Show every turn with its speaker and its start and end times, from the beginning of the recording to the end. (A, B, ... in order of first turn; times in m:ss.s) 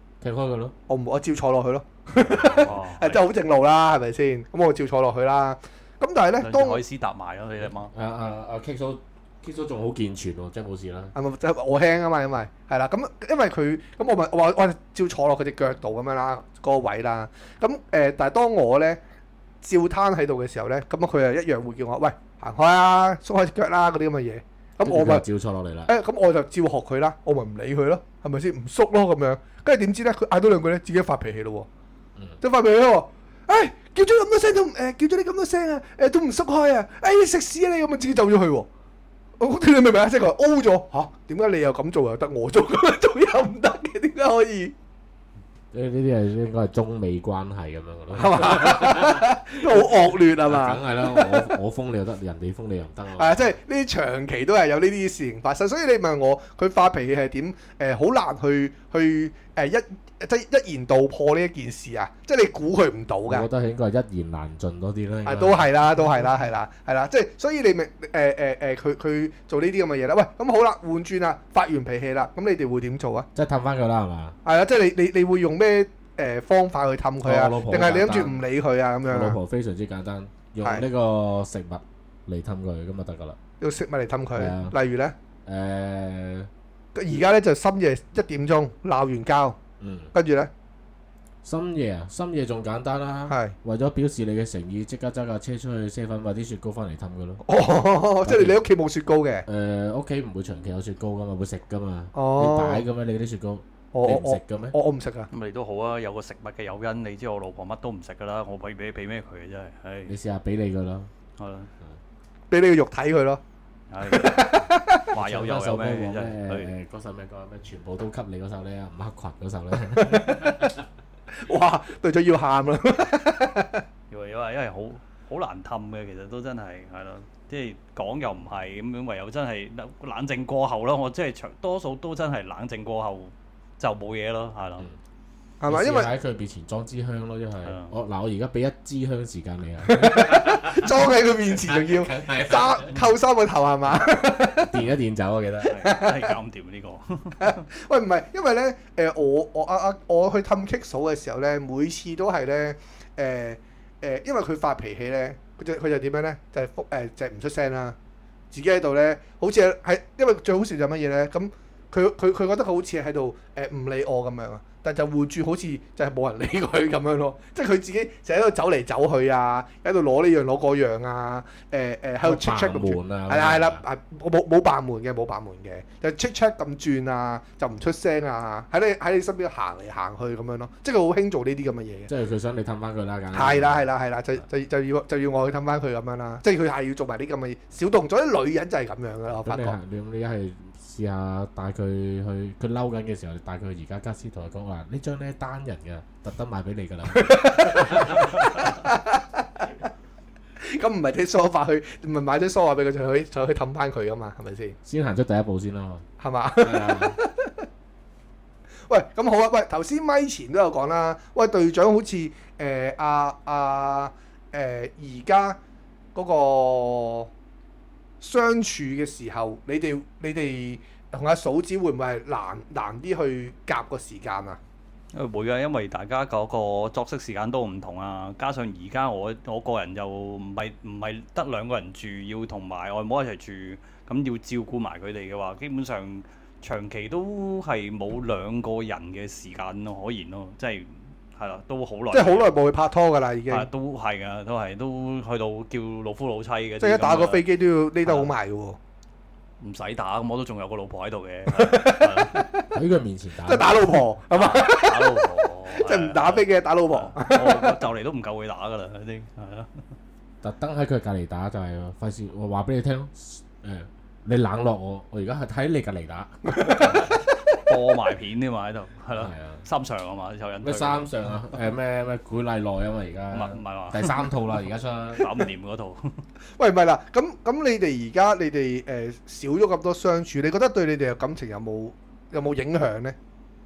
0:00.2-0:00.8 A
0:00.9-0:06.8 B
0:02.3-0:03.2 C
0:06.4-0:07.9 C
0:07.9-0:11.1 A
0:11.2-0:19.0 B
0:19.6-0:25.2 B
0:24.8-0:25.9 A
0:25.9-0:31.7 B
0:32.4-0:38.7 B
0:39.4-0:44.7 B
0:45.7-0:53.5 A
0:48.1-0:51.6 B
0:53.2-1:03.5 B
1:03.3-1:05.7 A
1:05.3-1:13.3 B
1:13.4-1:14.4 A
1:14.4-1:19.4 B
1:17.2-1:18.4 A
1:19.0-1:23.4 A
1:23.6-1:25.1 B
1:24.4-1:24.7 A
1:25.5-1:26.5 A
1:27.0-1:29.6 B
1:29.8-1:30.1 A
1:30.1-1:30.5 B
1:31.4-1:37.4 A
1:33.3-1:33.6 B
1:37.5-1:39.5 B
1:38.2-1:38.6 A
1:39.5-1:44.8 A
1:42.2-1:42.8 B
1:43.9-1:45.3 B
1:45.3-1:50.1 C
1:50.1-1:51.1 A
1:51.4-1:51.7 C
1:52.5-1:53.4 B
1:53.9-1:56.7 C
1:54.1-1:55.1 B
1:55.1-2:00.7 A
1:59.9-2:00.8 B
2:01.4-2:03.8 B
2:04.1-2:14.9 C
2:15.6-2:16.1 B
2:15.7-2:23.1 A
2:17.6-2:17.9 C
2:19.9-2:24.8 B
2:24.5-2:25.8 A
2:25.6-2:27.6 C
2:25.8-2:26.3 B
2:27.4-2:38.0 B
2:38.5-3:02.1 B
2:52.2-2:53.8 A
3:02.1-3:03.9 A
3:03.3-3:09.8 B
3:09.3-3:18.4 A
3:17.1-3:19.9 B
3:20.6-3:24.8 B
3:24.8-3:26.1 A
3:26.2-3:27.6 B
3:26.6-3:27.2 A
3:28.9-3:35.6 B
3:36.2-3:37.3 B
3:38.2-3:44.6 B
3:45.1-4:02.6 C
4:02.1-4:03.7 B
4:03.5-4:07.4 C
4:06.8-4:08.8 B
4:08.0-4:08.3 C
4:09.6-4:12.4 C
4:11.5-4:12.7 B
4:12.7-4:14.0 A
4:13.4-4:17.8 B
4:14.3-4:19.8 C
4:20.4-4:27.1 A
4:26.5-4:27.1 B
4:26.8-4:31.1 C
4:29.2-4:29.6 A
4:30.6-4:35.3 A
4:33.3-4:34.2 C
4:35.2-4:36.2 C
4:36.6-4:43.2 B